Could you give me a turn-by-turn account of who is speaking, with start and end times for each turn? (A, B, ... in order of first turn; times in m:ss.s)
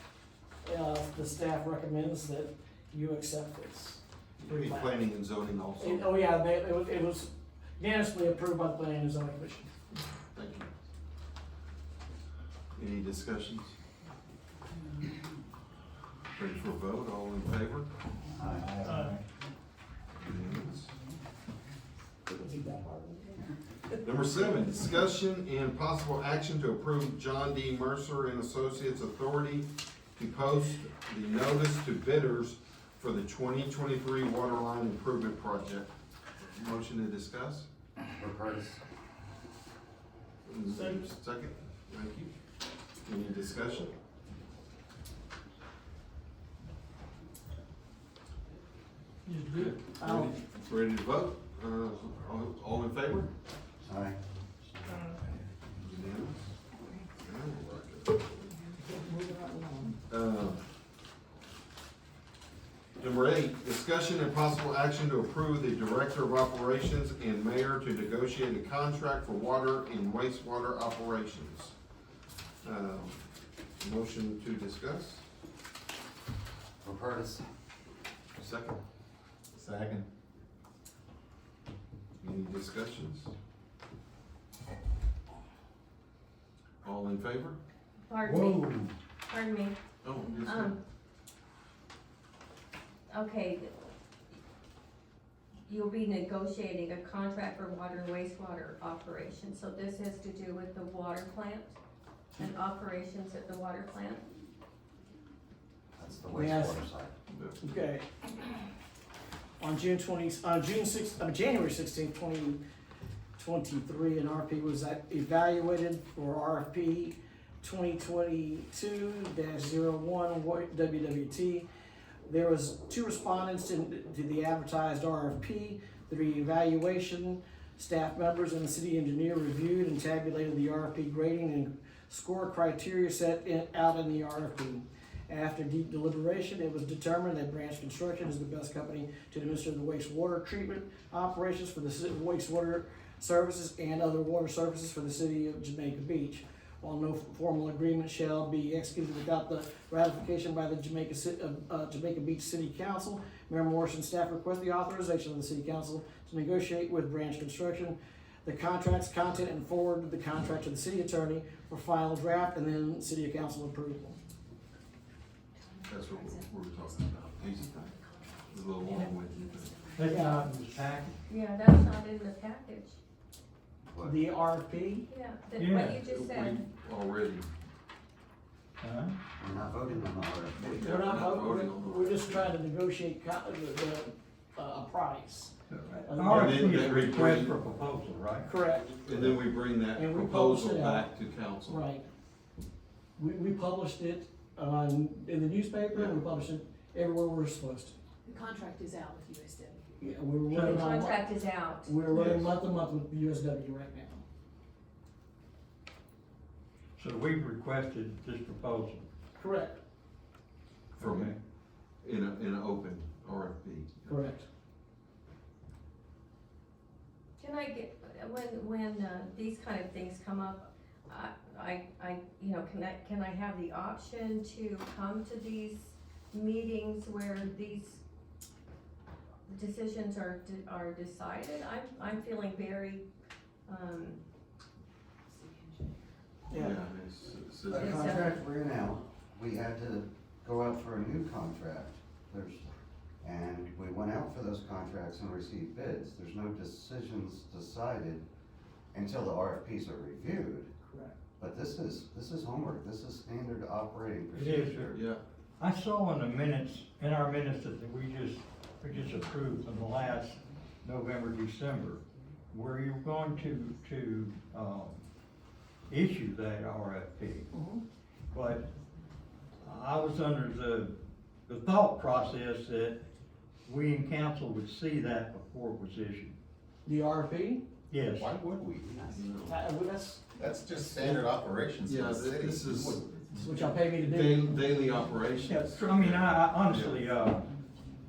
0:00.6-0:04.9 A
0:04.4-0:06.2 B
0:05.8-0:09.7 A
0:10.3-0:10.7 B
0:12.7-0:13.8 B
0:16.3-0:17.9 B
0:18.4-0:19.1 C
0:18.5-0:19.2 D
0:20.2-0:20.9 B
0:22.3-0:23.4 A
0:24.0-0:37.7 B
0:38.2-0:38.8 C
0:40.4-0:42.3 B
0:43.0-0:43.9 B
0:49.3-0:49.8 D
0:50.0-0:50.4 A
0:50.0-0:53.3 B
0:53.8-0:54.2 C
0:55.8-0:56.4 B
0:57.2-0:58.5 B
0:58.8-1:00.0 A
1:00.1-1:00.6 B
1:03.0-1:11.8 B
1:12.6-1:13.2 B
1:13.8-1:15.2 B
1:16.8-1:17.4 C
1:18.4-1:18.8 B
1:19.5-1:20.1 E
1:22.2-1:23.3 B
1:26.8-1:27.6 B
1:28.1-1:28.8 F
1:28.2-1:28.9 D
1:29.3-1:29.8 F
1:30.0-1:30.8 B
1:30.3-1:30.8 F
1:33.1-1:33.7 F
1:35.7-1:41.8 F
1:42.4-1:44.2 F
1:46.0-1:47.1 C
1:46.3-1:46.8 A
1:47.3-1:47.8 B
1:47.6-1:48.1 A
1:49.6-1:52.6 A
1:53.4-2:01.7 A
2:02.3-2:44.2 A
2:45.6-2:50.7 G
2:45.9-2:47.9 B
2:48.5-2:49.8 B
2:49.9-2:51.2 D
2:50.1-2:50.4 A
2:51.3-2:53.0 F
2:53.9-2:54.2 C
2:54.0-2:55.1 A
2:55.1-2:56.6 F
2:55.6-2:56.0 D
2:56.0-2:57.5 B
2:58.8-2:59.2 D
2:59.4-3:00.8 C
3:00.6-3:02.6 B
3:00.8-3:05.5 A
3:05.7-3:08.5 D
3:06.0-3:06.8 A
3:06.2-3:07.6 B
3:08.4-3:08.9 A
3:08.8-3:11.9 B
3:09.9-3:11.1 A
3:11.7-3:12.1 A
3:13.2-3:18.0 A
3:15.9-3:16.2 B
3:18.2-3:20.1 G
3:20.0-3:21.3 A
3:20.5-3:20.9 D
3:20.6-3:21.9 F
3:21.8-3:24.2 A
3:22.1-3:22.5 B
3:27.0-3:29.1 D
3:29.4-3:29.8 A
3:31.0-3:31.4 B
3:31.0-3:31.4 D
3:32.0-3:34.1 B
3:34.1-3:34.5 A
3:37.4-3:48.0 F
3:49.5-3:53.0 F
3:53.7-3:54.2 F
3:55.3-3:56.0 G
3:56.5-3:56.8 A
3:56.5-3:58.4 B
3:57.7-4:02.7 C
3:57.7-3:58.4 F
4:03.2-4:08.3 C
4:08.9-4:10.7 C
4:11.4-4:15.1 C
4:14.4-4:14.9 D
4:14.9-4:15.2 B
4:15.6-4:25.1 D
4:25.9-4:27.6 D
4:27.5-4:27.8 A
4:28.3-4:28.7 D
4:29.6-4:33.0 D
4:33.6-4:36.4 D
4:36.8-4:37.6 A
4:37.9-4:38.4 D
4:38.1-4:39.2 E
4:39.0-4:39.6 B
4:39.4-4:40.2 A
4:40.4-4:43.6 E
4:41.8-4:47.1 B
4:43.4-4:44.6 A
4:45.4-4:47.5 D